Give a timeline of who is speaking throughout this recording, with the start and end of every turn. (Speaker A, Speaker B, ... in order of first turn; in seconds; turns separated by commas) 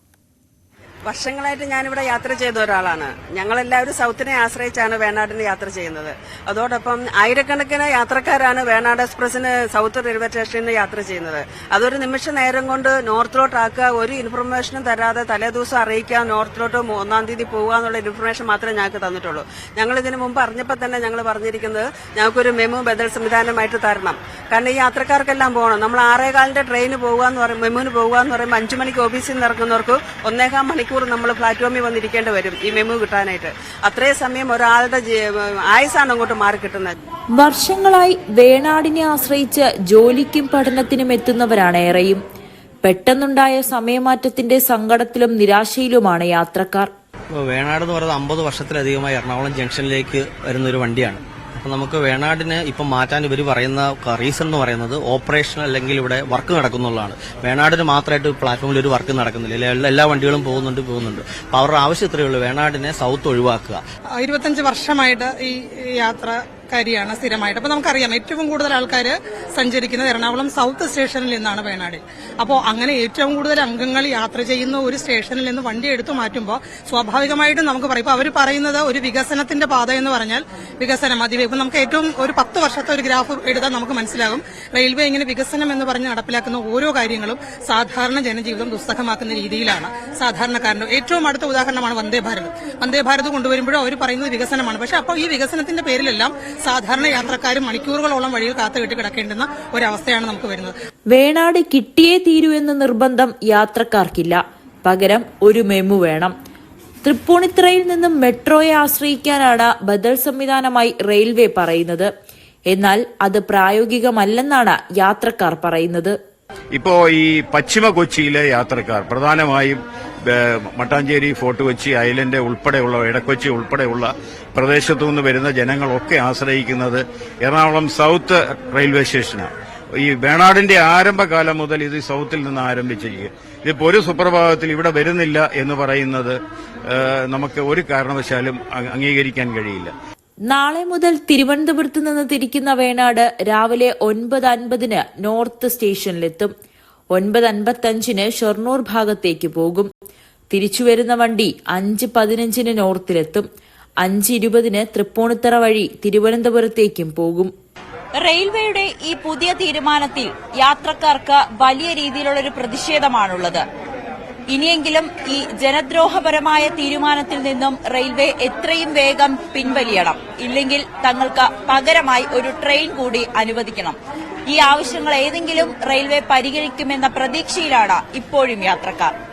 Speaker A: 1.1-36.9, Speaker B: 37.4-42.2, Speaker B: 42.8-46.9, Speaker C: 47.3-63.8, Speaker D: 64.2-100.7, Speaker B: 101.1-106.3, Speaker B: 107.0-112.1, Speaker B: 112.7-116.2, Speaker E: 116.7-139.9, Speaker B: 140.5-146.5, Speaker B: 147.1-149.9, Speaker B: 150.5-153.4, Speaker B: 154.0-157.5, Speaker F: 158.2-163.6, Speaker F: 164.5-179.1